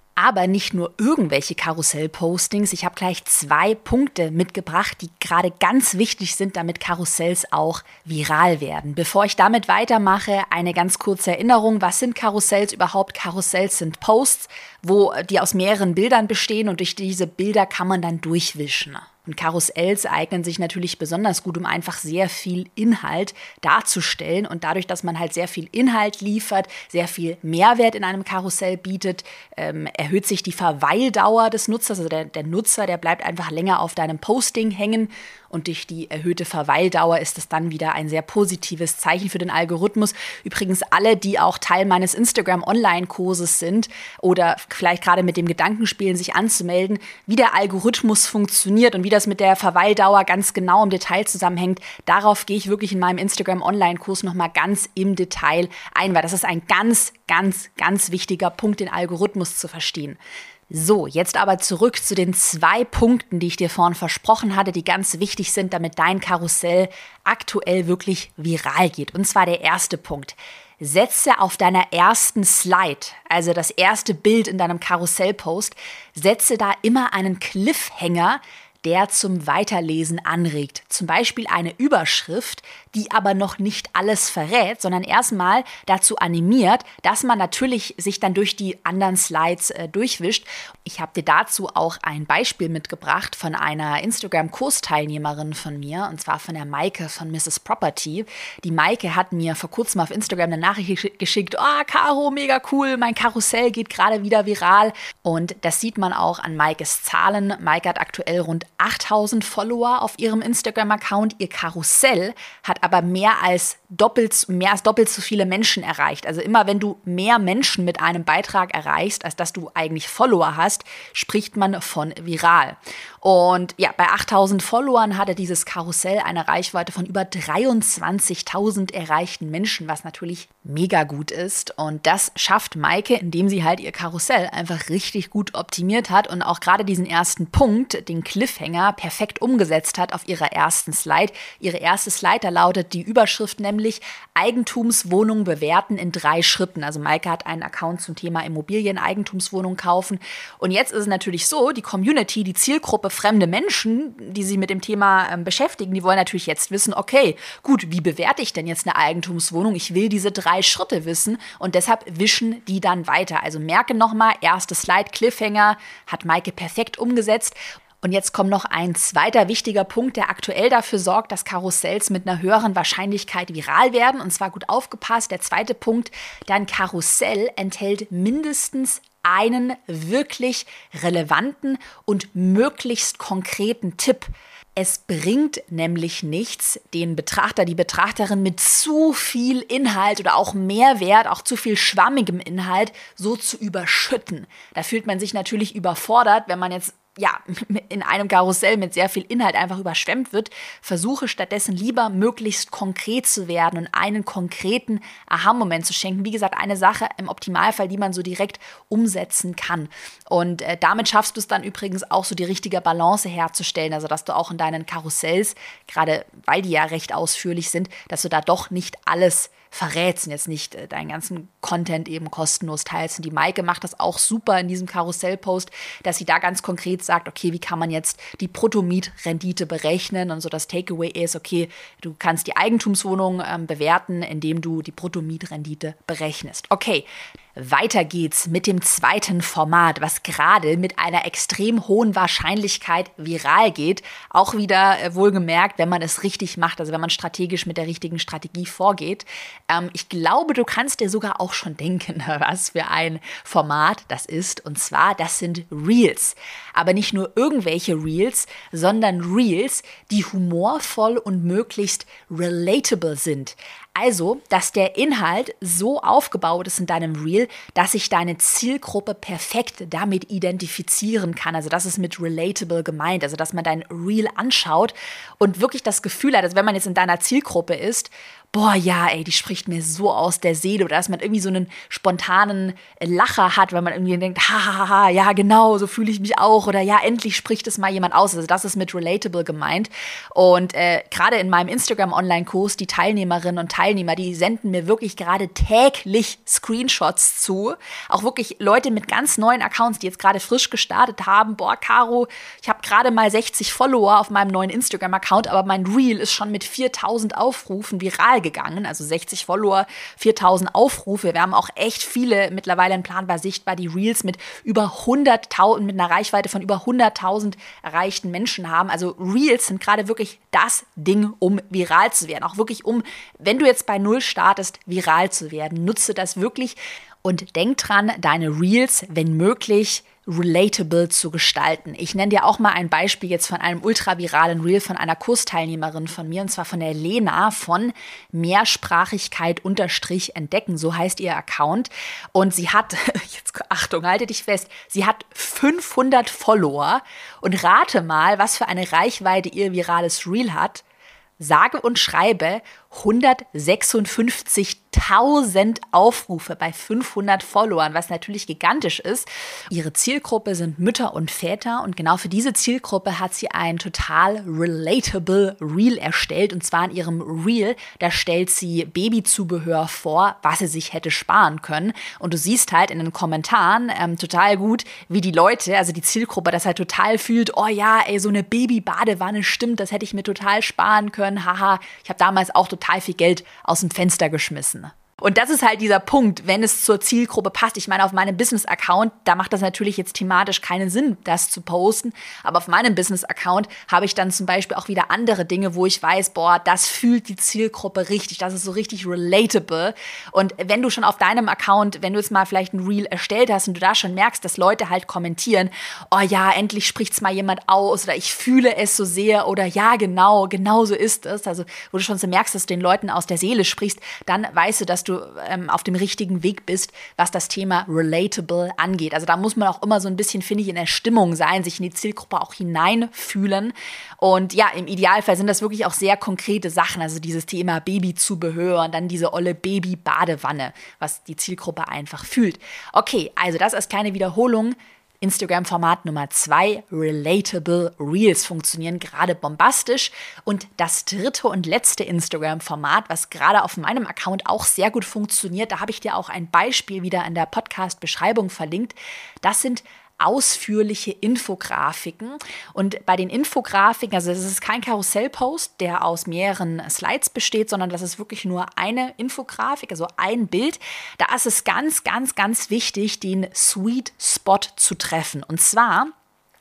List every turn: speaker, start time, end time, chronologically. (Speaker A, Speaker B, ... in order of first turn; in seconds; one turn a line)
Speaker A: 0.2-350.8
Speaker A: 351.4-466.1